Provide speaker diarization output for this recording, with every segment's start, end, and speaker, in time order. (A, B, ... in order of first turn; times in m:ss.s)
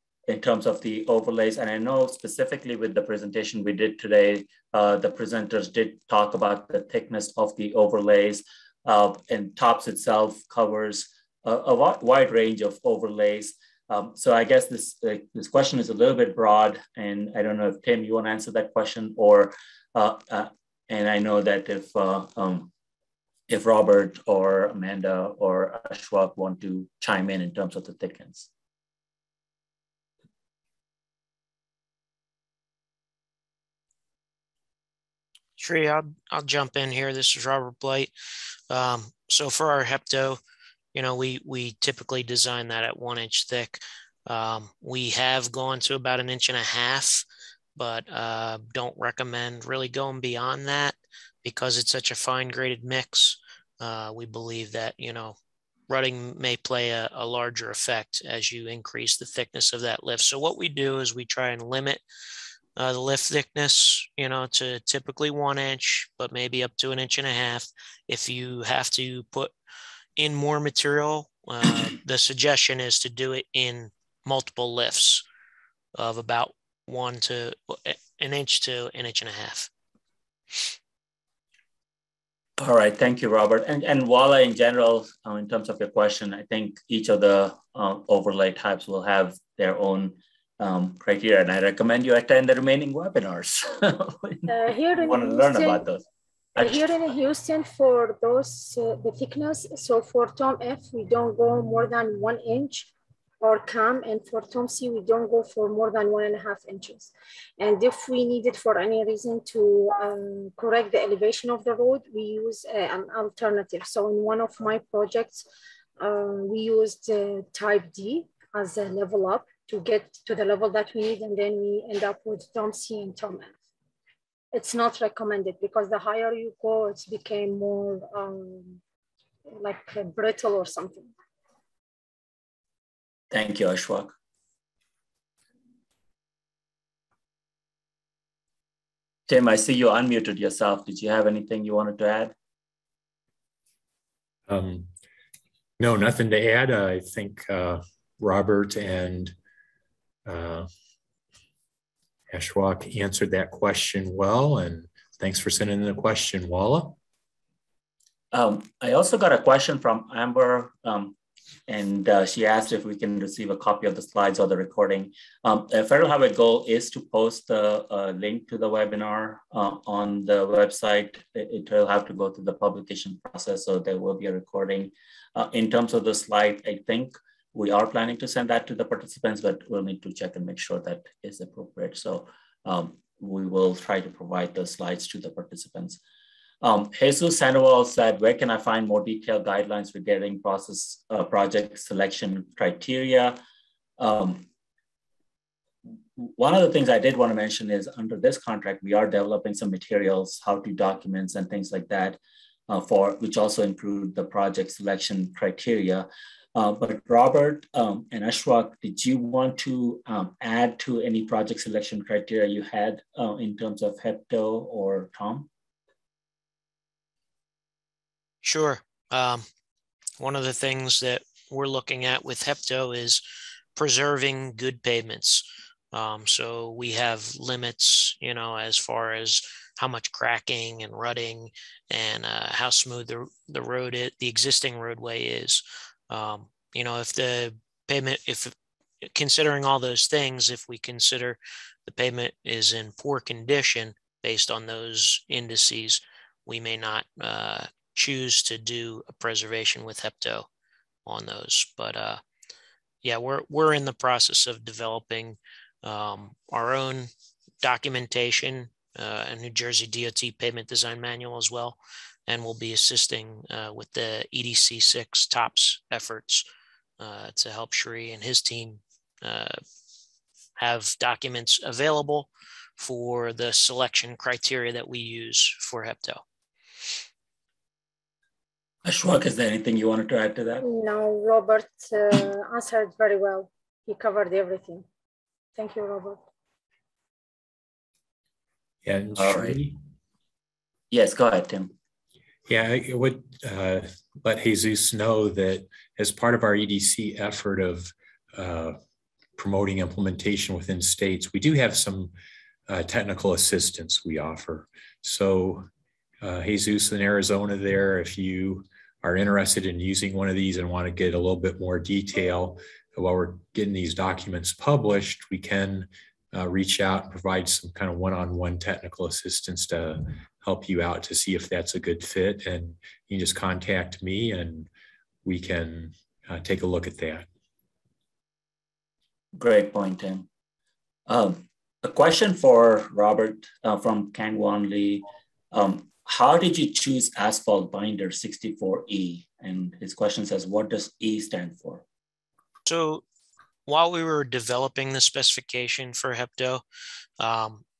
0:00.3-0:22.7 A
0:23.5-0:28.5 A
0:35.6-0:38.1 B
0:38.7-0:40.4 B
0:40.9-0:47.2 B
0:47.8-0:55.4 B
0:55.9-1:02.0 B
1:02.8-1:09.5 B
1:10.2-1:15.2 B
1:16.0-1:19.7 B
1:22.6-1:36.0 A
1:34.5-1:35.9 C
1:36.6-1:36.8 A
1:36.6-1:55.5 C
1:56.0-2:03.6 C
2:04.5-2:08.8 C
2:09.5-2:11.1 C
2:13.3-2:14.1 A
2:19.3-2:22.3 A
2:24.5-2:24.9 D
2:25.8-2:29.3 D
2:30.2-2:30.7 D
2:32.3-2:37.0 D
2:38.3-2:41.2 A
2:41.7-3:06.0 A
3:06.6-3:13.4 A
3:14.0-3:14.4 A
3:16.2-3:35.5 A
3:38.4-3:39.4 B
3:40.2-3:43.2 B
3:43.8-3:58.5 B
3:59.0-4:10.5 B
4:11.0-4:12.2 B
4:13.0-4:17.1 B
4:17.6-4:26.4 B
4:27.0-4:29.6 B
4:30.6-4:36.2 B
4:38.8-4:40.6 A
4:40.6-4:44.8 C
4:45.5-4:46.2 C
4:48.8-4:49.8 D
4:49.2-4:49.6 A
4:50.9-4:51.7 A
4:52.5-4:58.8 D
4:59.4-5:02.1 D
5:02.7-5:05.7 D
5:06.2-5:24.7 D
5:25.2-5:27.3 D
5:29.3-5:30.3 A
5:31.1-5:41.8 A
5:42.6-5:43.0 B
5:43.6-5:46.6 B
5:47.2-5:47.6 B